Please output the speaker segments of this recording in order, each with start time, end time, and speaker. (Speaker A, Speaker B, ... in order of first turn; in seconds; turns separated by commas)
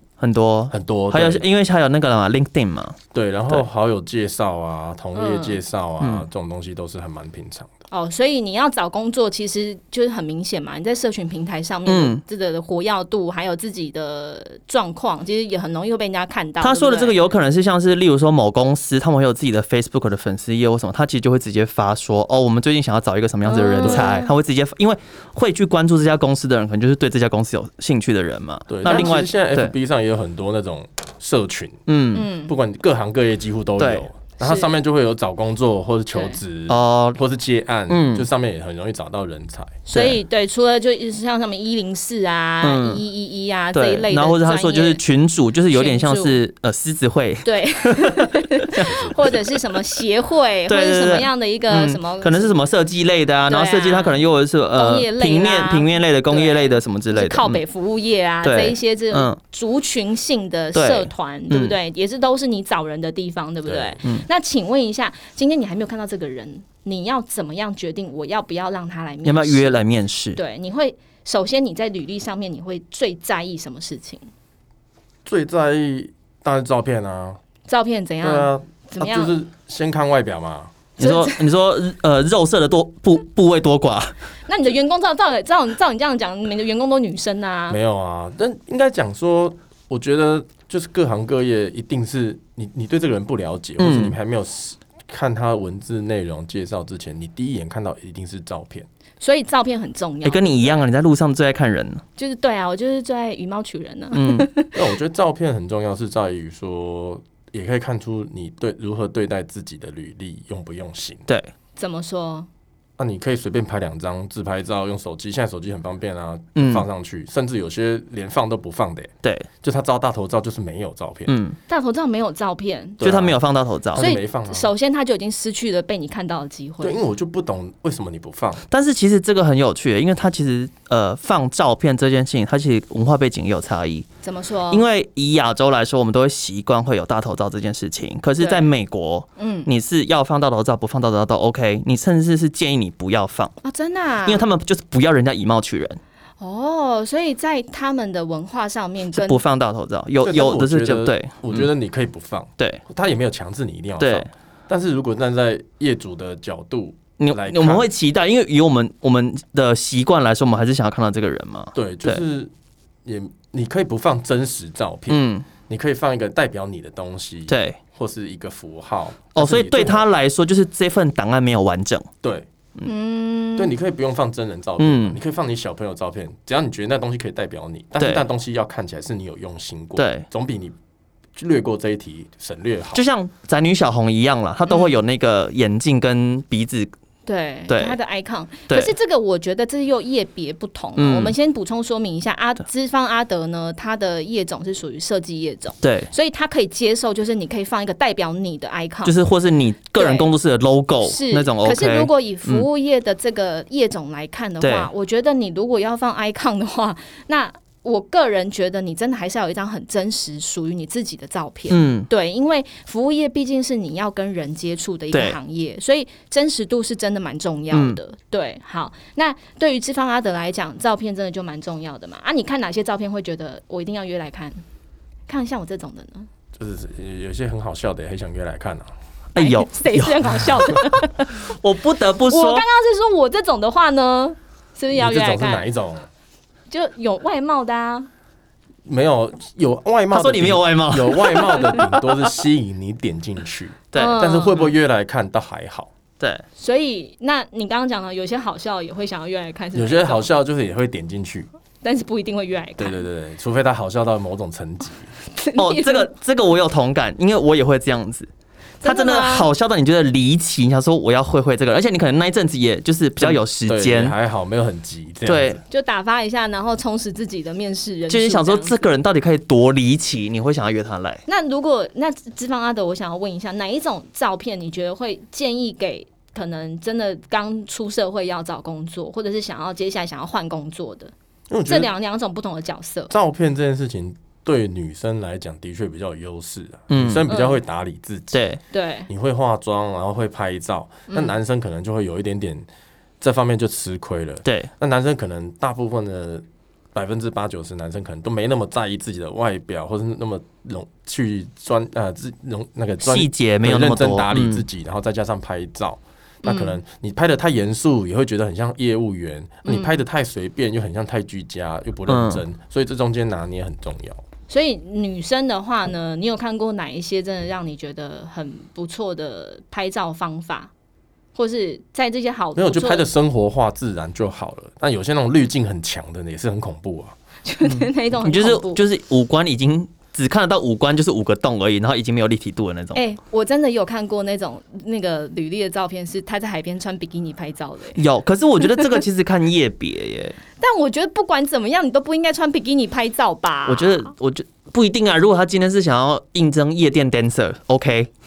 Speaker A: 0.2-3.0, Speaker B: 0.7-1.4, Speaker B: 3.1-7.8, Speaker C: 5.1-5.6, Speaker A: 6.0-6.2, Speaker C: 7.9-17.2, Speaker A: 11.8-12.2, Speaker A: 16.6-29.7, Speaker C: 23.4-24.3, Speaker B: 28.7-31.8, Speaker C: 28.8-29.1, Speaker A: 31.9-32.3, Speaker C: 32.1-32.5, Speaker B: 32.5-39.8, Speaker A: 33.8-34.0, Speaker C: 34.4-34.7, Speaker C: 36.1-36.4, Speaker A: 36.7-37.2, Speaker A: 37.9-38.2, Speaker C: 39.9-45.0, Speaker A: 39.9-40.2, Speaker A: 42.6-43.0, Speaker A: 43.7-49.4, Speaker C: 45.7-46.4, Speaker C: 47.4-52.6, Speaker A: 50.7-57.6, Speaker C: 53.5-69.8, Speaker A: 58.4-59.4, Speaker A: 60.7-61.8, Speaker B: 63.7-64.0, Speaker A: 69.2-70.4, Speaker C: 70.3-74.2, Speaker B: 75.2-77.4, Speaker C: 77.7-79.3, Speaker B: 78.2-80.7, Speaker C: 81.0-81.4, Speaker A: 81.0-84.1, Speaker C: 84.5-87.8, Speaker B: 87.7-98.9, Speaker A: 93.8-94.1, Speaker C: 99.2-100.8, Speaker A: 100.2-102.0, Speaker C: 102.2-104.8, Speaker A: 104.1-104.5, Speaker B: 104.7-111.2, Speaker C: 111.8-112.5, Speaker B: 113.0-121.3, Speaker A: 116.5-116.8, Speaker A: 121.3-121.6, Speaker C: 121.7-123.2, Speaker B: 123.0-123.4, Speaker A: 123.0-124.1, Speaker B: 123.9-124.7, Speaker C: 123.9-127.0, Speaker B: 126.8-128.6, Speaker A: 128.7-134.1, Speaker C: 134.2-134.8, Speaker A: 134.7-143.6, Speaker C: 138.4-138.7, Speaker C: 139.4-139.7, Speaker C: 143.6-144.4, Speaker A: 144.2-146.0, Speaker C: 146.4-149.4, Speaker A: 149.1-151.7, Speaker B: 150.2-157.9, Speaker A: 154.0-154.3, Speaker A: 157.2-162.2, Speaker B: 161.7-162.5, Speaker B: 163.0-170.1, Speaker A: 165.1-165.4, Speaker A: 167.5-167.8, Speaker A: 169.3-172.1, Speaker B: 172.2-172.5, Speaker C: 172.8-173.7, Speaker B: 173.6-180.8, Speaker A: 174.8-175.2, Speaker A: 178.0-178.2, Speaker A: 180.0-180.2, Speaker B: 181.3-183.0, Speaker A: 182.9-186.9, Speaker C: 184.7-184.9, Speaker C: 187.2-199.2, Speaker A: 187.7-188.0, Speaker A: 188.7-188.9, Speaker A: 191.0-191.3, Speaker A: 195.8-196.1, Speaker A: 199.0-202.7, Speaker C: 199.9-200.3, Speaker C: 201.0-224.6, Speaker A: 204.6-204.9, Speaker A: 211.7-212.1, Speaker A: 215.1-215.4, Speaker A: 217.7-218.0, Speaker C: 225.3-226.3, Speaker B: 226.6-228.9, Speaker A: 229.3-232.6, Speaker C: 229.3-231.4, Speaker C: 232.3-235.6, Speaker B: 234.9-236.1, Speaker C: 236.7-238.1, Speaker B: 238.8-245.9, Speaker A: 240.1-241.6, Speaker A: 243.9-244.3, Speaker C: 243.9-244.7, Speaker C: 246.6-250.3, Speaker B: 249.7-251.5, Speaker C: 251.8-253.0, Speaker B: 252.8-255.1, Speaker C: 255.3-256.1, Speaker A: 255.6-258.3, Speaker C: 258.8-259.5, Speaker A: 258.8-264.1, Speaker B: 263.2-265.6, Speaker A: 265.2-265.6, Speaker C: 265.7-268.8, Speaker A: 268.1-271.2, Speaker C: 271.3-281.1, Speaker B: 281.5-281.9, Speaker C: 281.6-283.1, Speaker B: 283.1-288.4, Speaker A: 286.9-287.3, Speaker C: 287.3-287.6, Speaker A: 288.3-288.6, Speaker C: 288.7-289.1, Speaker B: 289.1-292.6, Speaker C: 291.1-291.3, Speaker B: 293.2-314.2, Speaker A: 294.4-294.7, Speaker A: 303.0-304.6, Speaker C: 306.4-306.8, Speaker C: 309.6-310.0, Speaker A: 312.1-312.4, Speaker C: 314.5-320.7, Speaker C: 321.4-323.0, Speaker B: 322.6-327.1, Speaker C: 327.4-328.8, Speaker A: 328.2-333.0, Speaker C: 332.9-338.0, Speaker A: 337.9-340.4, Speaker C: 338.6-339.0, Speaker C: 340.6-344.1, Speaker A: 343.7-348.1